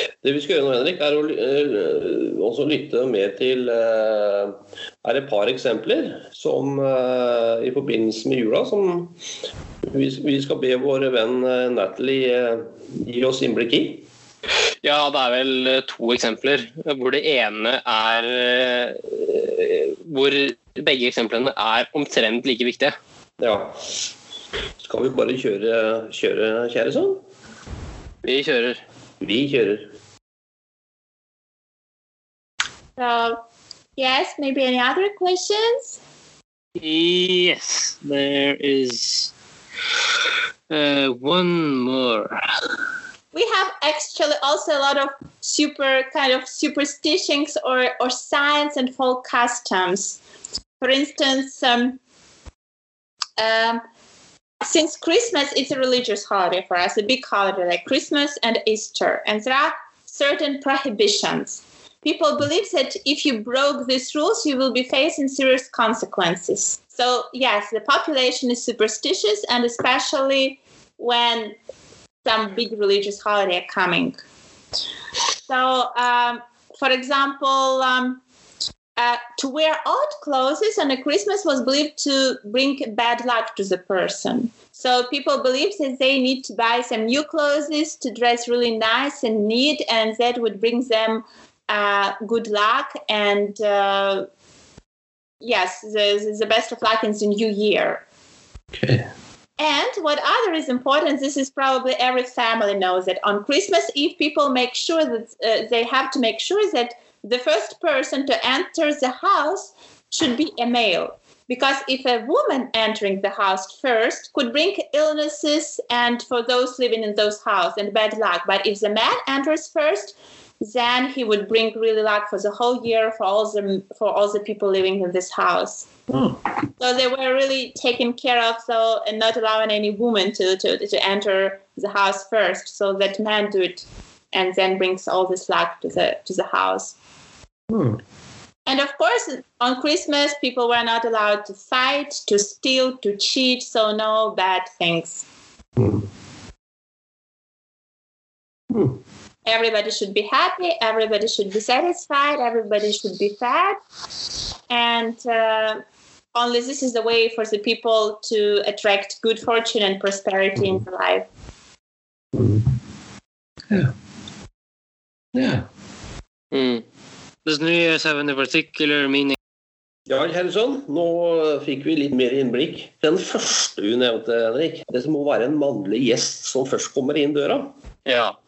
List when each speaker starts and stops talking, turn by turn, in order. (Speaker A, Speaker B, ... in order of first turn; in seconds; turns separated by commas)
Speaker A: 0.2-9.2, Speaker A: 9.8-14.0, Speaker B: 14.8-22.9, Speaker A: 23.4-23.8, Speaker A: 24.8-27.2, Speaker B: 28.2-28.8, Speaker A: 29.2-29.9, Speaker C: 33.0-33.4, Speaker C: 34.0-36.0, Speaker B: 36.8-39.3, Speaker B: 40.7-42.4, Speaker C: 43.3-50.2, Speaker C: 50.8-52.0, Speaker C: 53.4-53.8, Speaker C: 54.6-71.6, Speaker C: 72.2-74.2, Speaker C: 75.4-78.2, Speaker C: 79.0-94.2, Speaker C: 95.4-98.0, Speaker A: 98.8-99.1, Speaker C: 99.6-125.9, Speaker A: 126.1-126.4, Speaker C: 126.8-136.9, Speaker A: 137.7-138.0, Speaker C: 138.7-145.2, Speaker A: 145.8-146.0, Speaker A: 148.7-149.0, Speaker C: 149.4-153.8, Speaker C: 154.7-155.8, Speaker C: 156.3-161.3, Speaker A: 160.6-160.8, Speaker A: 162.3-162.6, Speaker A: 165.3-165.7, Speaker B: 166.5-166.8, Speaker B: 167.4-169.4, Speaker A: 170.1-177.7, Speaker B: 178.1-178.4